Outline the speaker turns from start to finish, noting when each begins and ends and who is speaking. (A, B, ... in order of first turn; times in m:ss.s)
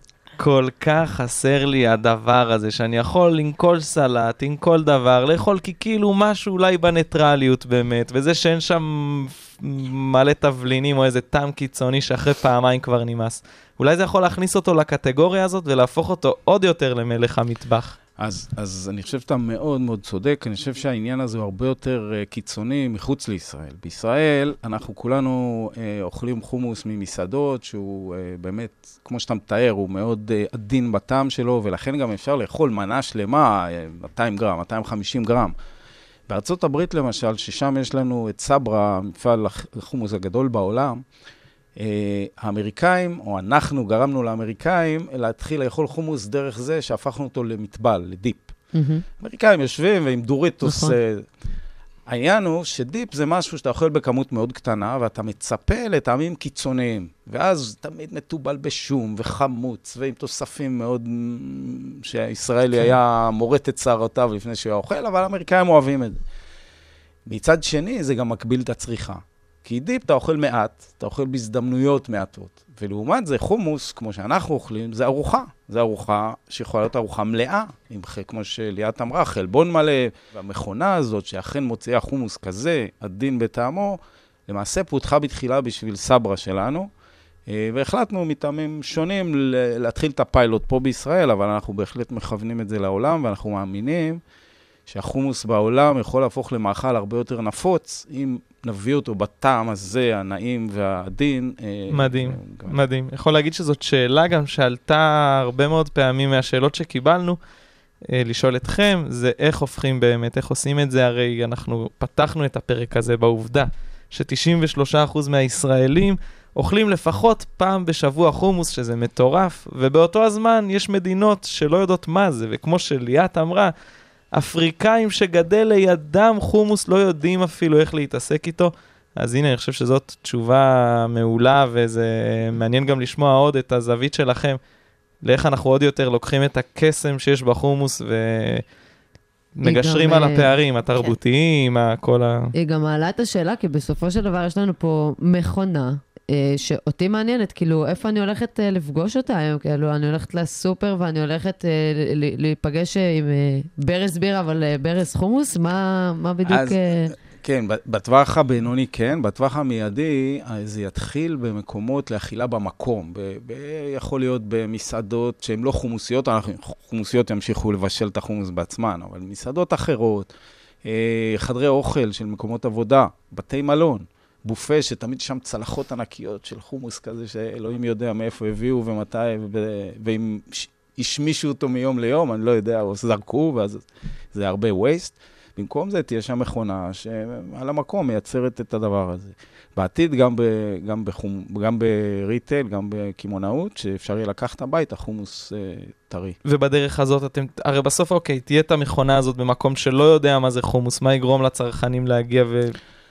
0:00.4-0:18.0 A
0:18.2-0:35.5 B
0:36.3-0:41.0 B
0:41.8-0:48.5 B
0:48.7-0:49.0 C
0:49.2-0:51.3 B
0:50.6-0:51.0 C
0:52.1-1:06.2 B
1:07.3-1:26.9 B
1:27.5-1:34.2 B
1:34.9-1:42.8 B
1:41.9-1:47.4 A
1:48.1-2:03.7 A
2:04.3-2:14.6 A
2:15.2-2:18.6 A
2:19.6-2:22.5 A
2:19.6-2:20.6 C
2:22.6-2:37.2 C
2:36.5-2:50.3 B
2:50.8-3:16.4 B
3:16.4-3:22.8 A